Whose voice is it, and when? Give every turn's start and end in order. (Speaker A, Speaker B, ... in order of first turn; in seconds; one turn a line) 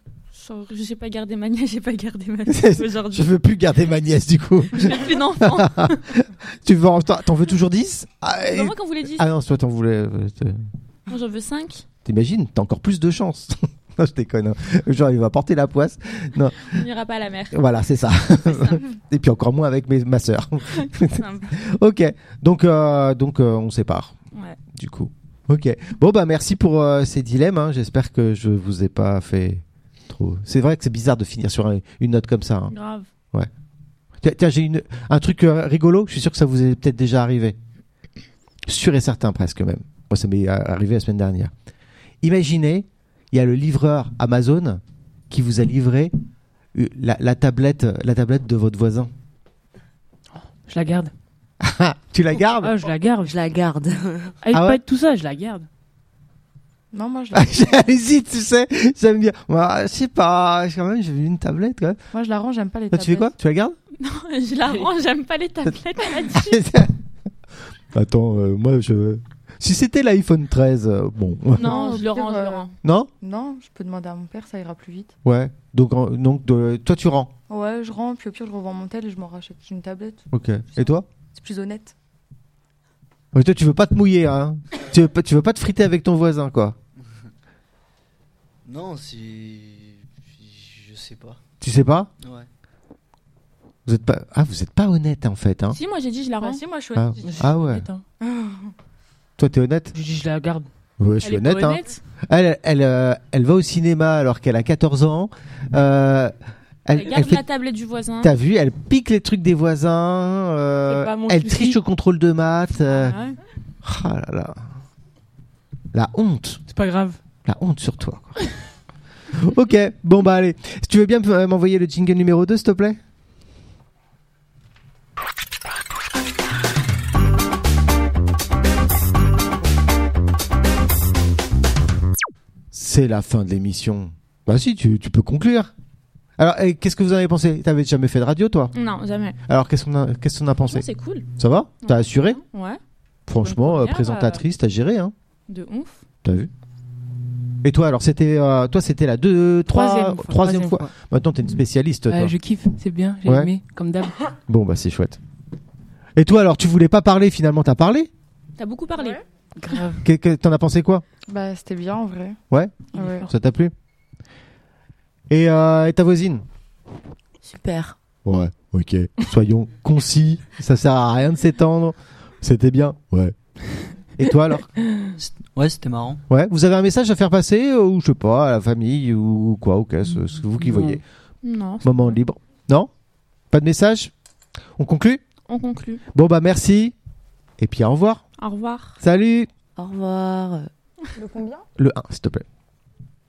Speaker A: 0.3-3.3
Speaker B: 2.5-10.7
Speaker A: 4.7-6.1
Speaker A: 8.5-9.3
Speaker A: 11.1-11.8
Speaker B: 12.0-16.8
Speaker A: 16.6-18.8
Speaker B: 17.5-24.1
Speaker A: 20.7-21.5
Speaker B: 24.7-32.7
Speaker A: 32.7-33.1
Speaker B: 34.2-37.5
Speaker B: 38.6-41.5
Speaker B: 42.2-46.1
Speaker B: 46.7-49.1
Speaker C: 50.3-51.1
Speaker B: 51.6-52.8
Speaker C: 52.6-53.3
Speaker D: 53.2-54.4
Speaker C: 54.4-55.7
Speaker B: 54.5-54.8
Speaker E: 56.9-57.8
Speaker B: 57.3-62.0
Speaker E: 62.1-63.3
Speaker B: 62.9-63.8
Speaker A: 64.0-66.6
Speaker B: 66.3-66.9
Speaker B: 67.9-71.9
Speaker E: 71.5-72.7
Speaker A: 71.6-72.7
Speaker B: 72.8-73.1
Speaker E: 73.2-75.1
Speaker B: 75.2-77.3
Speaker E: 77.5-81.9
Speaker B: 80.3-81.0
Speaker B: 83.3-86.8
Speaker F: 88.6-91.4
Speaker B: 91.6-92.1
Speaker F: 92.2-92.5
Speaker B: 93.8-95.8
Speaker A: 95.7-96.6
Speaker E: 96.4-97.5
Speaker B: 96.9-97.9
Speaker C: 97.2-98.0
Speaker E: 98.2-98.7
Speaker B: 99.4-99.9
Speaker C: 99.9-100.7
Speaker B: 101.0-106.3
Speaker C: 101.2-101.8
Speaker B: 106.8-107.4
Speaker A: 106.9-108.3
Speaker B: 108.2-113.2
Speaker C: 110.9-111.8
Speaker A: 112.9-113.4
Speaker B: 113.8-114.7
Speaker B: 115.9-116.6
Speaker C: 116.7-117.2
Speaker B: 117.4-118.4
Speaker B: 119.3-123.0
Speaker B: 132.7-135.7
Speaker B: 136.4-138.7
Speaker A: 138.7-139.4
Speaker B: 139.5-140.8
Speaker A: 140.7-141.3
Speaker B: 141.4-142.4
Speaker A: 141.8-142.8
Speaker B: 143.3-145.1
Speaker A: 143.5-144.0
Speaker C: 143.6-144.3
Speaker A: 145.5-146.0
Speaker B: 146.2-146.5
Speaker B: 147.6-152.3
Speaker C: 149.7-150.9
Speaker C: 152.1-154.2
Speaker B: 153.2-153.5
Speaker B: 154.5-155.2
Speaker B: 156.2-158.1
Speaker A: 158.6-159.2
Speaker C: 159.6-160.0
Speaker B: 160.0-161.0
Speaker E: 161.3-162.4
Speaker B: 162.5-163.7
Speaker E: 162.9-163.2
Speaker C: 163.0-163.3
Speaker B: 165.3-166.4
Speaker D: 167.4-168.0
Speaker B: 168.2-173.4
Speaker B: 174.1-174.7
Speaker F: 175.2-176.2
Speaker B: 176.3-181.0
Speaker C: 180.5-181.0
Speaker A: 181.4-182.2
Speaker B: 181.8-182.9
Speaker B: 183.5-184.1
Speaker B: 184.8-185.2
Speaker A: 185.5-186.0
Speaker B: 186.1-186.9
Speaker B: 187.6-188.2
Speaker A: 188.4-189.0
Speaker B: 189.0-189.5
Speaker D: 189.8-190.7
Speaker E: 191.2-191.7
Speaker B: 191.8-192.4